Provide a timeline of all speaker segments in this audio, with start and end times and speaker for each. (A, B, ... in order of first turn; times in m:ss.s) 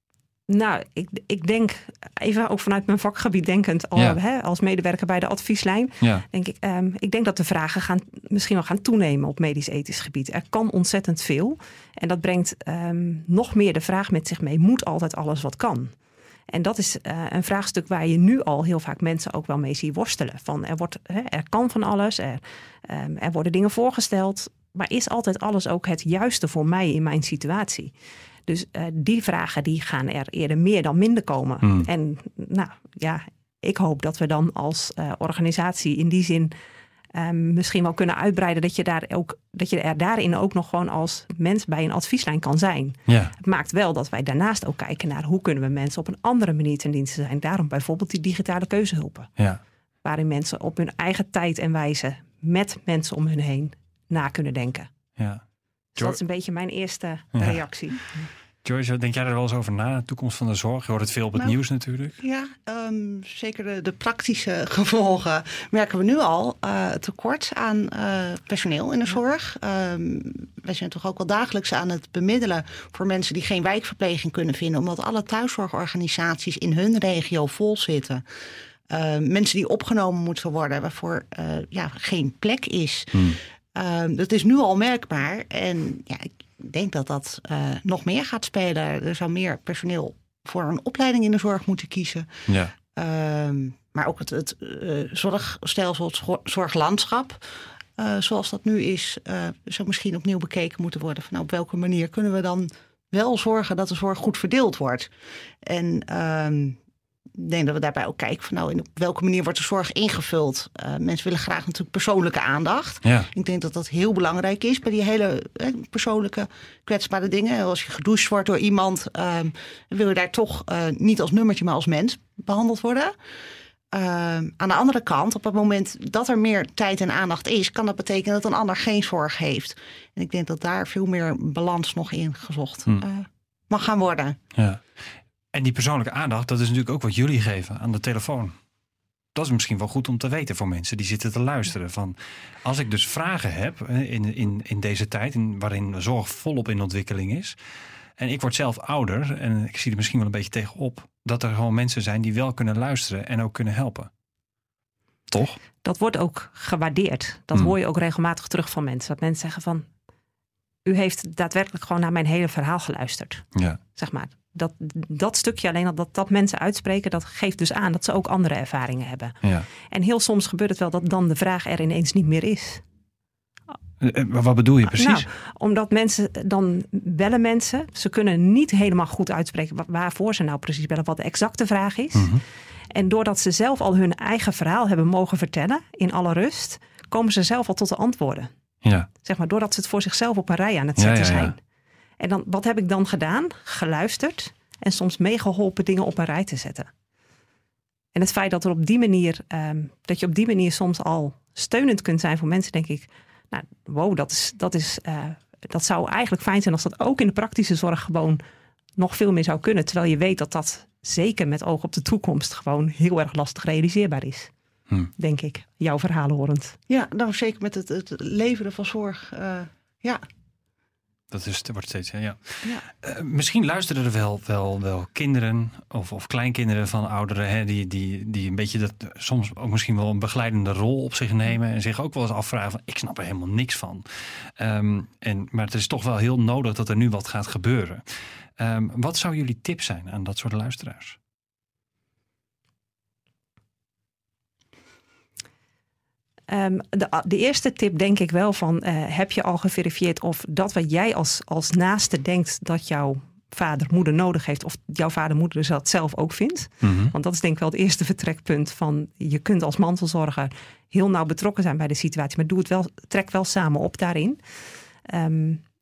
0:00.5-0:15.9 A
0:16.5-0:27.9 A
0:28.5-0:36.5 A
0:31.6-0:31.9 B
0:37.1-0:49.3 A
0:43.1-0:43.3 B
0:50.0-0:54.9 A
0:55.2-0:55.4 B
0:56.0-0:58.0 A
0:57.3-0:57.6 B
0:58.6-1:02.2 B
1:02.2-1:18.2 C
1:18.9-1:32.3 C
1:23.1-1:23.4 B
1:32.5-1:32.7 B
1:32.9-1:37.4 C
1:38.0-1:45.1 C
1:45.6-1:46.8 C
1:47.3-2:03.1 C
1:53.0-1:53.3 B
2:03.9-2:14.4 C
2:14.6-2:14.8 B
2:15.5-2:18.5 B
2:19.3-2:27.6 B
2:28.2-2:34.1 B
2:35.3-2:35.6 B
2:35.8-2:39.9 A
2:40.8-2:43.4 A
2:44.0-2:49.4 A
2:49.9-2:52.8 A
2:54.0-2:55.2 B
2:54.8-3:02.3 A
3:02.1-3:02.4 B
3:02.9-3:08.5 A
3:09.2-3:11.6 A
3:11.0-3:11.5 B
3:12.2-3:16.9 A
3:18.1-3:28.4 A
3:29.0-3:34.5 A
3:35.2-3:36.8 A
3:36.9-3:40.2 C
3:41.3-3:54.1 B
3:54.6-3:58.0 B
3:58.6-4:01.2 B
4:06.5-4:24.4 A
4:16.8-4:17.1 B
4:25.1-4:25.6 A